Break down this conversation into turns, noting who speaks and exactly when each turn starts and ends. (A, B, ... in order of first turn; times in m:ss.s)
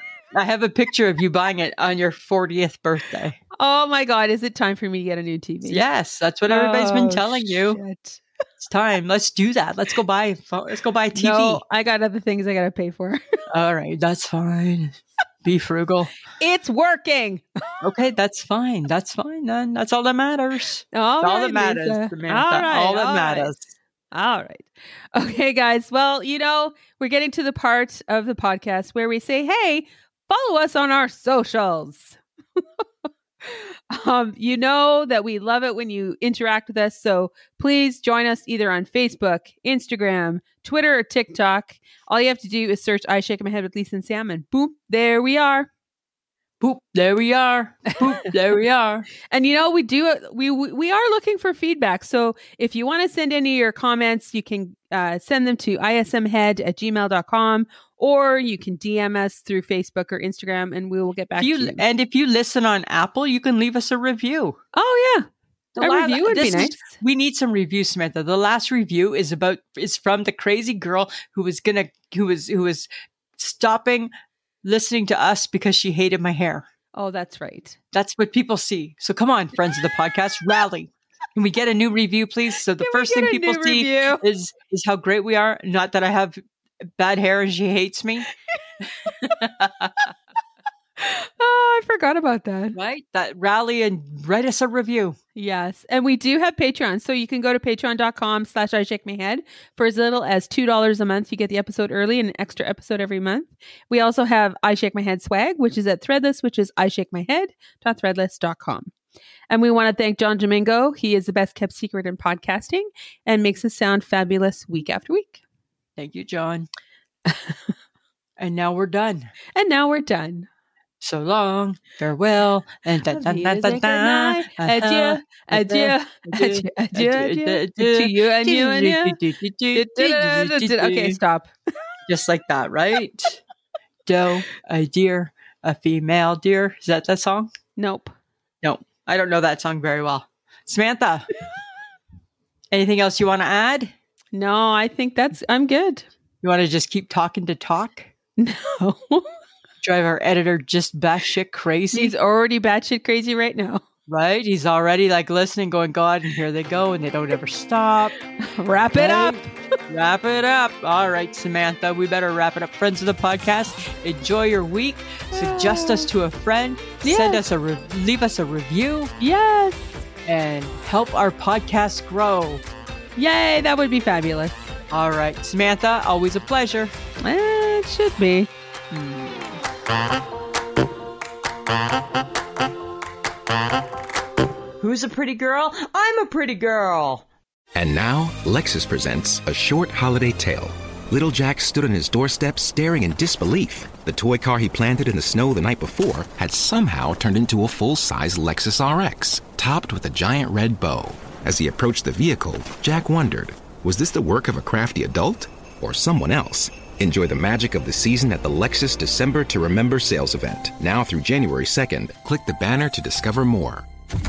0:00.3-0:03.4 A
0:03.5-0:05.8 B
0:05.6-0:07.8 A
0:06.5-0:08.2 B
0:08.6-0:11.6 A
0:11.1-0:13.2 B
0:13.5-0:16.2 A
0:16.4-0:17.9 B
0:17.8-0:23.7 A
0:20.9-0:23.5 B
0:24.1-0:45.7 B
0:46.6-0:49.1 A
0:49.2-1:01.8 B
1:01.4-1:04.6 A
1:04.7-1:06.9 B
1:05.8-1:14.1 A
1:14.6-1:16.6 A
1:16.9-1:17.8 B
1:17.9-1:26.4 A
1:22.8-1:24.2 B
1:27.0-1:28.3 A
1:29.0-1:30.1 A
1:29.0-1:29.3 B
1:31.0-1:32.8 B
1:32.7-1:35.2 A
1:35.4-1:48.9 B
1:49.5-1:55.4 B
1:56.0-1:56.7 A
1:57.2-1:57.7 B
1:58.4-1:59.3 A
1:59.5-2:00.5 B
2:01.0-2:11.2 A
2:03.1-2:09.2 B
2:09.7-2:11.5 B
2:12.1-2:13.4 A
2:14.0-2:17.5 A
2:17.8-2:18.1 B
2:18.6-2:21.3 A
2:22.7-2:23.9 A
2:24.3-2:26.1 B
2:26.4-2:28.1 A
2:28.4-2:29.4 B
2:29.8-2:32.1 A
2:31.9-2:33.8 B
2:34.1-2:38.2 A
2:38.4-2:39.6 B
2:38.9-2:49.1 A
2:45.3-2:46.1 B
2:47.0-2:47.4 B
2:49.2-2:49.9 B
2:50.2-2:52.6 A
2:53.2-2:54.7 B
2:54.9-2:56.9 A
2:57.2-2:58.5 B
2:58.9-2:59.6 A
3:04.8-3:07.2 A
3:07.7-3:33.8 C